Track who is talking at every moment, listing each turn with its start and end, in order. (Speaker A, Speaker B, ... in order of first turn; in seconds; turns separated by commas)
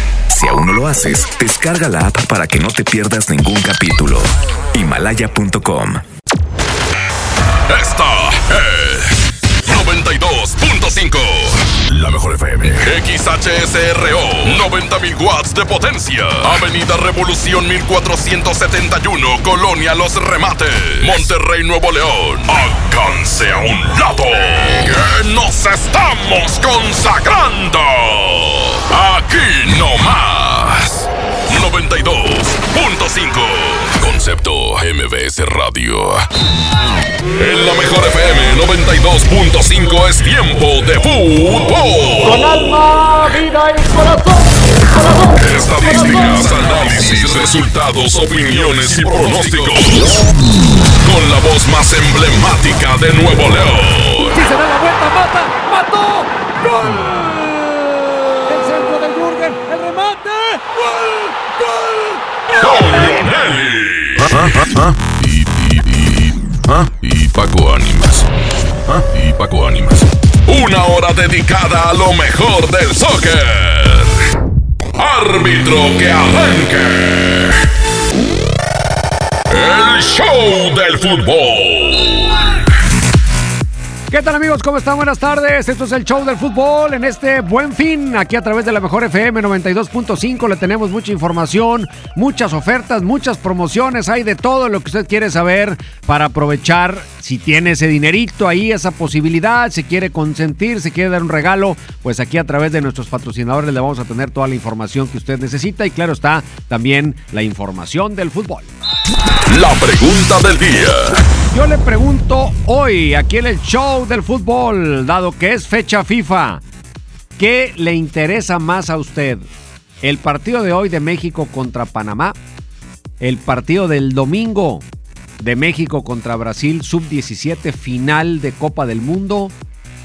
Speaker A: 0.3-6.0, Speaker B: 7.7-9.1, Speaker B: 9.7-36.2, Speaker B: 37.4-43.4, Speaker B: 45.2-50.1, Speaker B: 51.0-54.4, Speaker C: 54.8-55.5, Speaker B: 62.6-68.2, Speaker B: 68.9-74.2, Speaker B: 75.0-77.5, Speaker B: 79.5-82.5, Speaker C: 84.1-108.7, Speaker B: 109.5-111.2, Speaker C: 111.5-116.6, Speaker C: 117.4-119.5, Speaker C: 120.0-122.4, Speaker C: 123.2-124.8, Speaker C: 125.4-129.5